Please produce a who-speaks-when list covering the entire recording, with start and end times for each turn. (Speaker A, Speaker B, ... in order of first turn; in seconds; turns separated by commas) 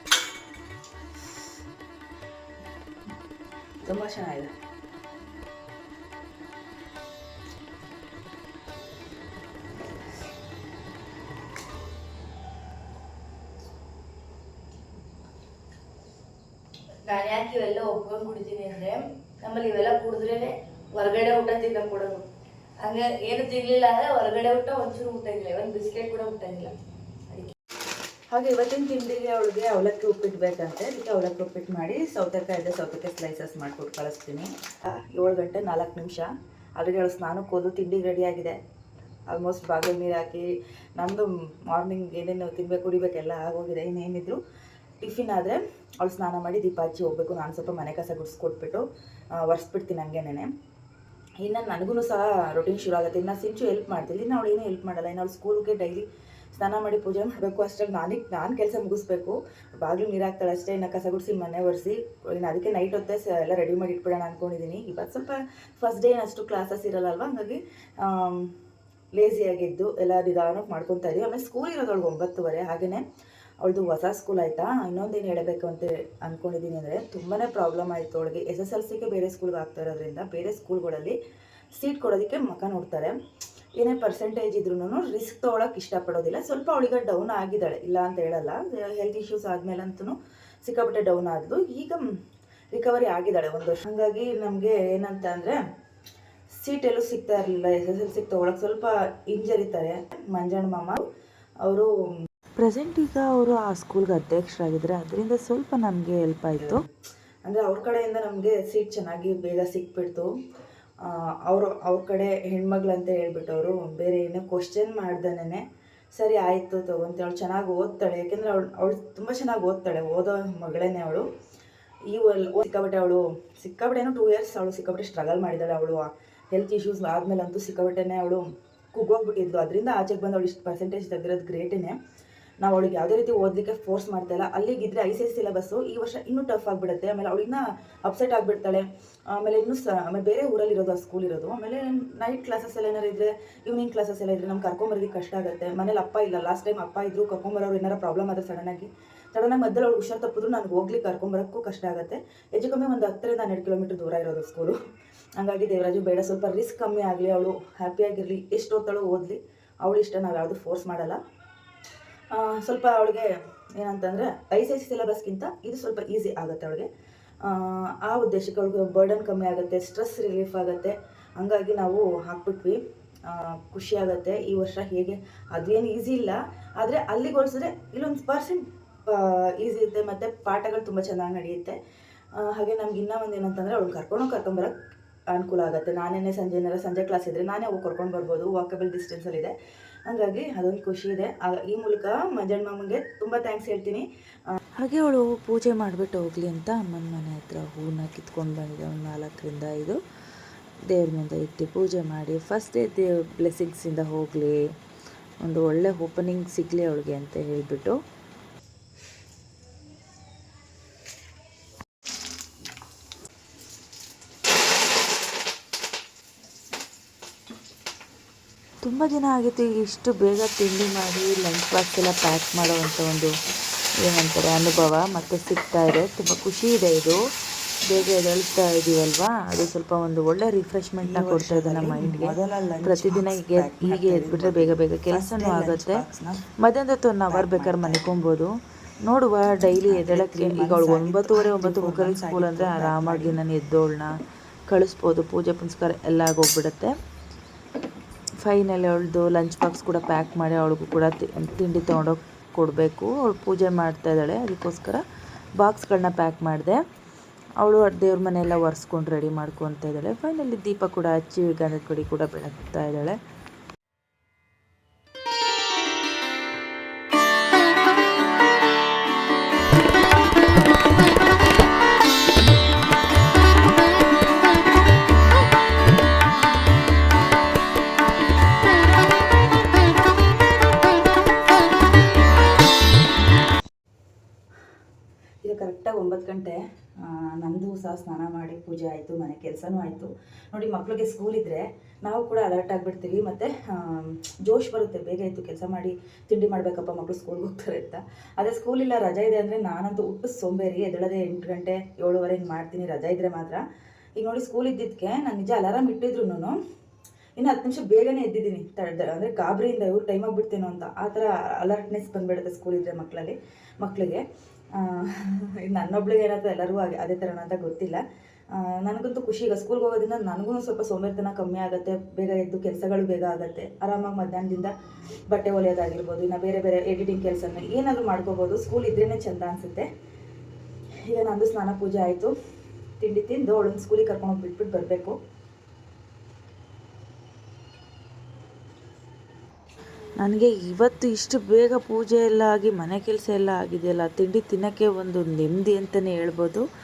Speaker A: 3.8-4.5, Speaker B: 17.1-20.0, Speaker C: 17.9-19.0, Speaker C: 19.5-22.2, Speaker B: 21.6-22.2, Speaker B: 22.8-23.8, Speaker C: 23.2-26.7, Speaker B: 25.3-25.6, Speaker B: 26.4-26.7, Speaker A: 28.3-38.6, Speaker A: 39.3-44.4, Speaker A: 45.0-48.9, Speaker A: 49.5-50.5, Speaker A: 51.4-68.5, Speaker A: 69.2-73.0, Speaker A: 73.6-81.2, Speaker A: 81.7-83.1, Speaker A: 83.8-92.1, Speaker A: 92.7-95.6, Speaker A: 96.6-101.0, Speaker A: 101.7-101.9, Speaker B: 102.6-106.8, Speaker A: 107.5-110.3, Speaker A: 111.1-115.6, Speaker A: 116.2-121.3, Speaker A: 122.1-132.0, Speaker A: 132.6-154.8, Speaker A: 155.4-161.2, Speaker A: 162.3-166.9, Speaker A: 167.4-181.8, Speaker A: 182.4-184.7, Speaker A: 185.3-189.5, Speaker A: 190.1-194.1, Speaker B: 194.8-200.0, Speaker B: 200.9-204.6, Speaker B: 205.4-207.9, Speaker B: 218.8-223.3, Speaker B: 224.0-227.2, Speaker B: 227.9-236.0, Speaker A: 231.0-236.5, Speaker B: 236.6-238.5, Speaker A: 237.3-238.1, Speaker B: 239.1-244.1, Speaker A: 239.5-243.4, Speaker B: 244.7-246.9, Speaker B: 248.4-255.0, Speaker B: 255.6-256.8, Speaker B: 257.6-263.2, Speaker A: 285.4-303.6, Speaker A: 304.2-306.6, Speaker A: 307.4-314.2, Speaker A: 314.8-318.0, Speaker A: 318.6-324.7, Speaker A: 325.3-329.9, Speaker A: 331.1-332.3, Speaker A: 333.0-335.2, Speaker B: 340.2-346.6